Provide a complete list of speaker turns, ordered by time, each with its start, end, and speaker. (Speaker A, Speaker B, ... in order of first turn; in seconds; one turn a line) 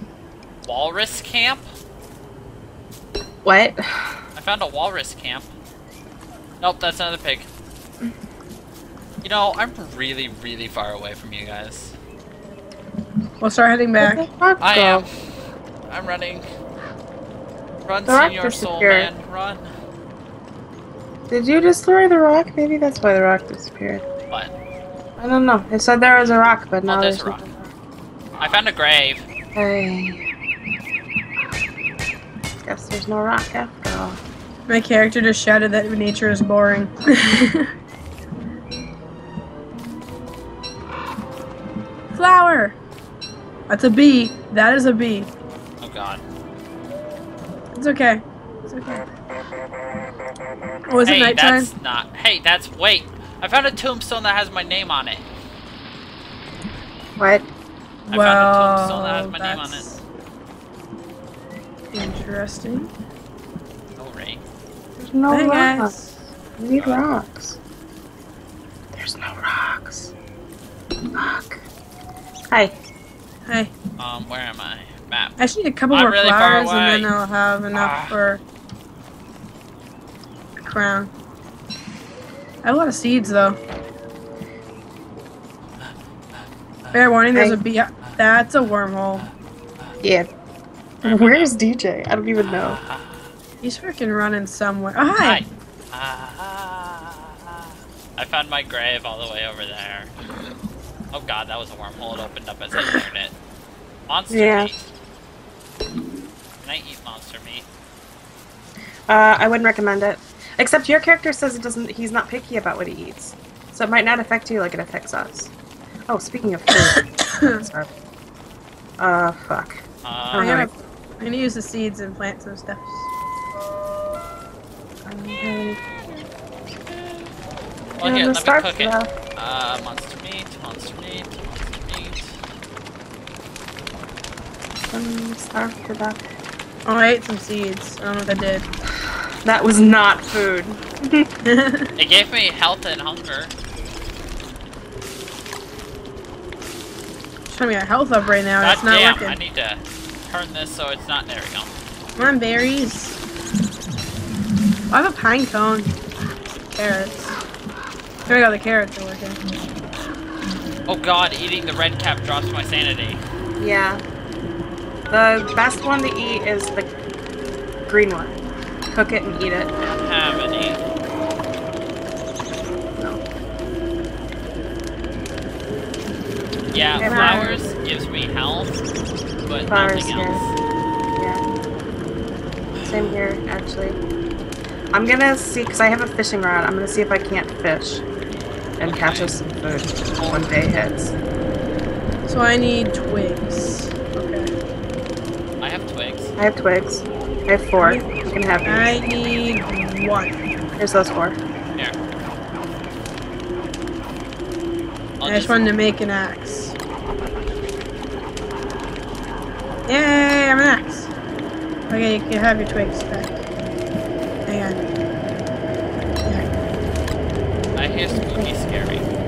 Speaker A: 0.6-1.7
Speaker B: 3.4-4.2
Speaker A: 4.3-5.5
Speaker A: 6.6-7.5
Speaker A: 9.2-11.9
Speaker C: 13.4-14.2
Speaker B: 14.0-15.1
Speaker A: 14.6-15.1
Speaker A: 15.9-16.4
Speaker A: 17.9-19.7
Speaker B: 18.1-19.1
Speaker B: 21.3-24.0
Speaker B: 25.2-27.7
Speaker A: 26.9-27.5
Speaker A: 28.4-29.3
Speaker B: 29.5-30.2
Speaker B: 32.6-34.2
Speaker C: 34.7-37.7
Speaker C: 42.1-42.8
Speaker C: 43.7-45.3
Speaker A: 45.8-46.2
Speaker C: 47.7-49.0
Speaker C: 50.9-51.7
Speaker A: 51.0-55.2
Speaker B: 57.2-57.5
Speaker A: 58.1-59.9
Speaker C: 58.1-60.0
Speaker C: 61.9-62.9
Speaker A: 64.0-64.4
Speaker B: 65.0-67.6
Speaker C: 65.3-66.2
Speaker A: 66.8-67.0
Speaker B: 68.9-70.1
Speaker B: 71.1-71.6
Speaker B: 72.5-72.8
Speaker C: 73.5-73.7
Speaker A: 74.0-75.4
Speaker C: 75.4-78.4
Speaker A: 75.9-77.1
Speaker A: 77.7-78.2
Speaker C: 80.6-81.1
Speaker C: 82.6-83.6
Speaker A: 86.8-87.1
Speaker C: 86.9-89.3
Speaker B: 87.3-87.6
Speaker A: 89.2-90.0
Speaker B: 90.0-90.3
Speaker B: 91.0-92.8
Speaker A: 91.0-91.5
Speaker A: 92.4-93.3
Speaker C: 93.6-95.4
Speaker A: 95.2-100.1
Speaker A: 101.1-103.3
Speaker A: 104.1-104.9
Speaker B: 104.3-104.7
Speaker A: 106.6-107.7
Speaker B: 109.1-115.5
Speaker B: 116.1-117.9
Speaker C: 116.8-117.6
Speaker B: 119.0-120.7
Speaker A: 120.0-120.5
Speaker C: 120.4-123.1
Speaker B: 125.0-126.2
Speaker A: 128.0-132.3
Speaker B: 128.0-129.1
Speaker B: 134.9-136.2
Speaker C: 136.8-138.7
Speaker B: 139.4-141.3
Speaker C: 141.4-141.9
Speaker A: 141.9-143.5
Speaker C: 147.5-149.4
Speaker A: 148.6-151.8
Speaker C: 152.2-153.2
Speaker C: 154.9-156.0
Speaker C: 156.6-157.3
Speaker C: 158.2-159.4
Speaker A: 160.9-163.2
Speaker B: 163.6-164.0
Speaker B: 165.1-166.9
Speaker B: 167.9-168.4
Speaker B: 168.9-169.7
Speaker A: 169.8-170.9
Speaker B: 172.9-173.2
Speaker A: 176.7-178.8
Speaker C: 177.0-177.6
Speaker B: 177.0-177.7
Speaker A: 179.4-180.5
Speaker B: 179.7-180.4
Speaker B: 181.1-181.4
Speaker A: 182.8-183.1
Speaker B: 182.8-184.0
Speaker B: 184.9-188.0
Speaker B: 188.8-191.1
Speaker A: 188.8-189.3
Speaker A: 190.1-190.5
Speaker C: 192.2-194.5
Speaker A: 195.6-196.3
Speaker B: 196.4-198.9
Speaker C: 197.8-198.1
Speaker C: 198.6-200.4
Speaker B: 200.8-201.4
Speaker A: 205.2-205.7
Speaker C: 205.2-206.8
Speaker C: 209.9-211.1
Speaker C: 211.9-213.4
Speaker C: 214.4-214.8
Speaker A: 217.8-219.1
Speaker B: 218.1-218.5